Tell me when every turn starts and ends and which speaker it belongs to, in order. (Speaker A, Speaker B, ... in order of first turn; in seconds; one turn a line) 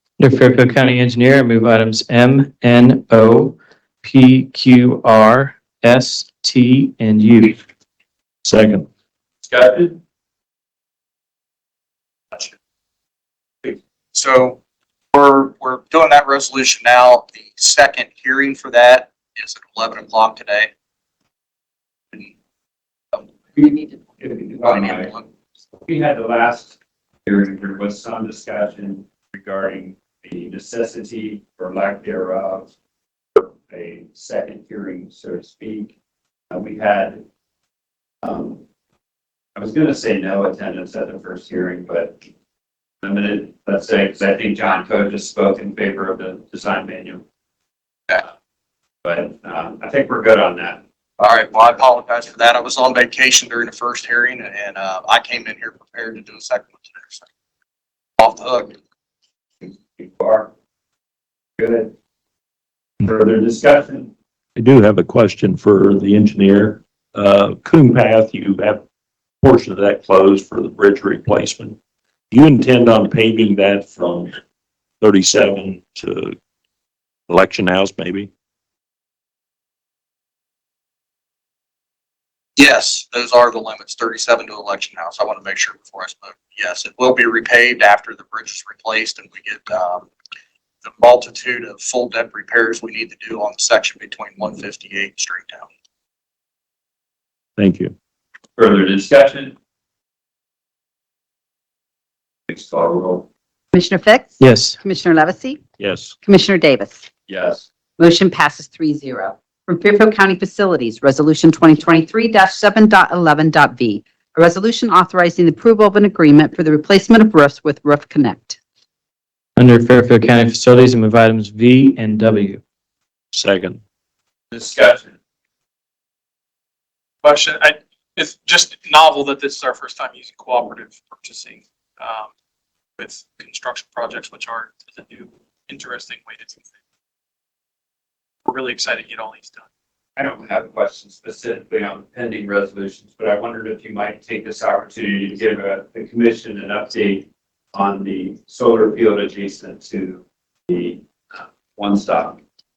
Speaker A: 0.2-7.6
Speaker B: 8.4-8.9
Speaker C: 9.4-10.0
Speaker D: 14.1-14.6
Speaker D: 15.1-20.7
Speaker C: 23.6-25.1
Speaker D: 24.6-25.3
Speaker C: 25.8-32.7
Speaker C: 33.4-35.9
Speaker C: 36.5-37.2
Speaker C: 38.2-38.6
Speaker C: 39.5-42.2
Speaker C: 43.0-47.2
Speaker C: 49.0-50.8
Speaker D: 51.2-57.2
Speaker D: 58.2-58.7
Speaker C: 59.6-60.5
Speaker C: 61.6-61.9
Speaker C: 63.0-64.1
Speaker B: 64.5-68.8
Speaker B: 69.4-71.8
Speaker B: 72.3-74.3
Speaker B: 75.0-76.4
Speaker B: 77.3-78.3
Speaker D: 82.6-90.1
Speaker D: 90.8-95.7
Speaker B: 97.6-97.9
Speaker C: 98.6-99.5
Speaker C: 102.5-103.3
Speaker E: 103.7-105.6
Speaker A: 104.4-104.8
Speaker B: 105.8-106.1
Speaker E: 106.2-107.0
Speaker C: 107.3-107.7
Speaker E: 108.0-118.6
Speaker A: 119.5-122.6
Speaker B: 123.3-123.8
Speaker C: 124.5-125.2
Speaker F: 127.2-132.3
Speaker F: 133.0-136.7
Speaker F: 138.4-139.6
Speaker C: 140.2-152.4